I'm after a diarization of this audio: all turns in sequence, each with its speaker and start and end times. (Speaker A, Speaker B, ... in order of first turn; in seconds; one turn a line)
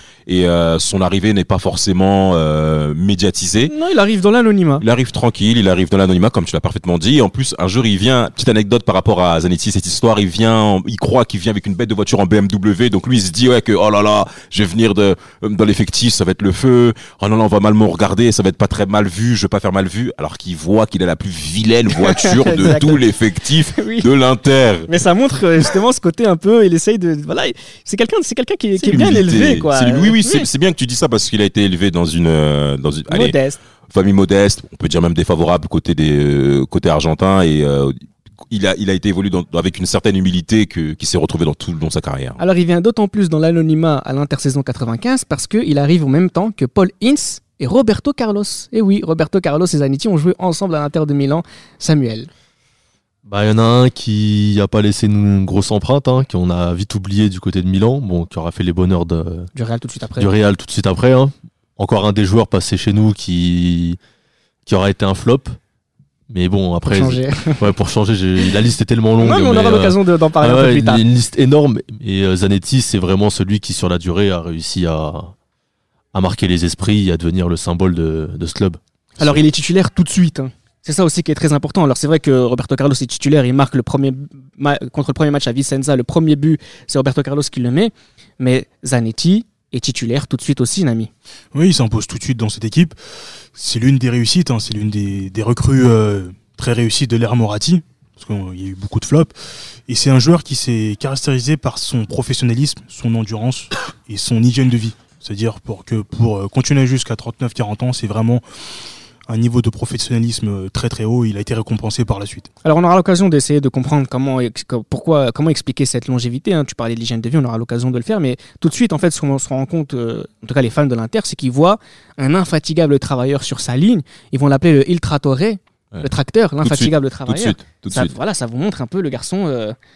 Speaker A: 0.3-3.7
Speaker B: 3.7-4.8
Speaker A: 4.8-24.9
Speaker B: 22.0-23.0
Speaker B: 23.8-24.1
Speaker B: 24.9-30.5
Speaker A: 28.8-33.4
Speaker B: 33.1-33.6
Speaker A: 33.9-38.0
Speaker A: 38.5-42.4
Speaker B: 42.4-52.3
Speaker C: 53.3-59.5
Speaker B: 59.5-60.3
Speaker C: 60.2-64.0
Speaker C: 64.7-65.6
Speaker C: 66.3-75.3
Speaker B: 66.9-67.6
Speaker B: 69.2-71.0
Speaker C: 76.1-78.8
Speaker B: 79.2-91.1
Speaker D: 91.5-93.0
Speaker D: 93.5-99.3
Speaker D: 99.9-108.4
Speaker D: 109.3-112.5
Speaker B: 112.6-129.8
Speaker A: 126.6-128.1